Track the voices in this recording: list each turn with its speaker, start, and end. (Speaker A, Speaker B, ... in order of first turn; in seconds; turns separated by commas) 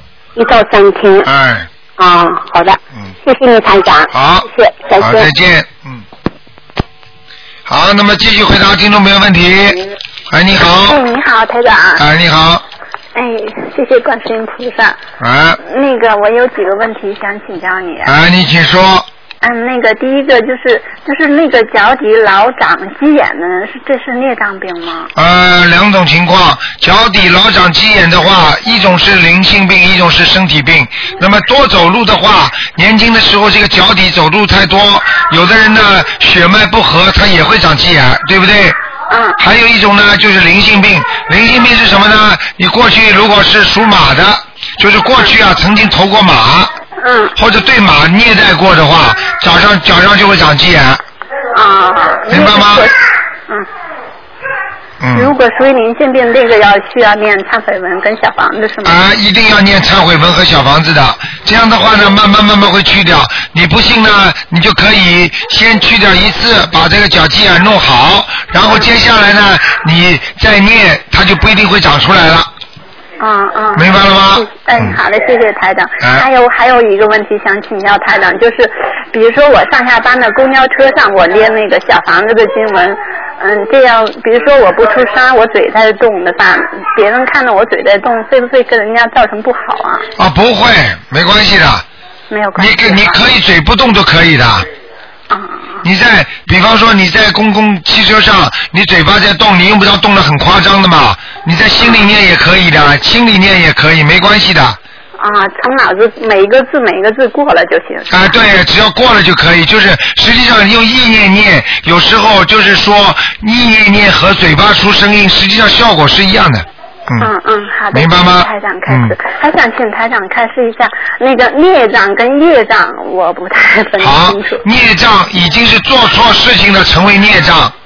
Speaker A: 0.3-1.3, Speaker B: 1.2-1.7, Speaker A: 2.0-5.3, Speaker B: 4.1-4.5, Speaker B: 5.0-6.0, Speaker B: 7.7-9.8, Speaker B: 10.3-11.0, Speaker C: 10.8-12.0, Speaker B: 12.0-12.6, Speaker C: 13.1-15.0, Speaker B: 15.2-15.6, Speaker C: 15.6-18.1, Speaker B: 18.0-19.1, Speaker C: 19.4-25.1, Speaker B: 25.1-38.8, Speaker C: 39.1-39.4, Speaker B: 39.4-46.7, Speaker C: 47.0-47.3, Speaker B: 47.4-51.0, Speaker C: 51.5-52.9, Speaker B: 52.3-52.9, Speaker B: 55.0-55.3, Speaker C: 55.1-59.0, Speaker B: 58.8-72.5, Speaker C: 68.6-68.9, Speaker C: 73.2-90.1, Speaker B: 73.7-75.0, Speaker B: 90.2-91.8, Speaker C: 92.3-93.2, Speaker B: 92.5-94.7, Speaker C: 95.3-95.8, Speaker B: 95.8-104.8, Speaker C: 101.8-102.1, Speaker C: 105.2-108.4, Speaker B: 108.1-117.3, Speaker C: 117.2-124.6, Speaker B: 117.9-119.1, Speaker B: 124.0-127.7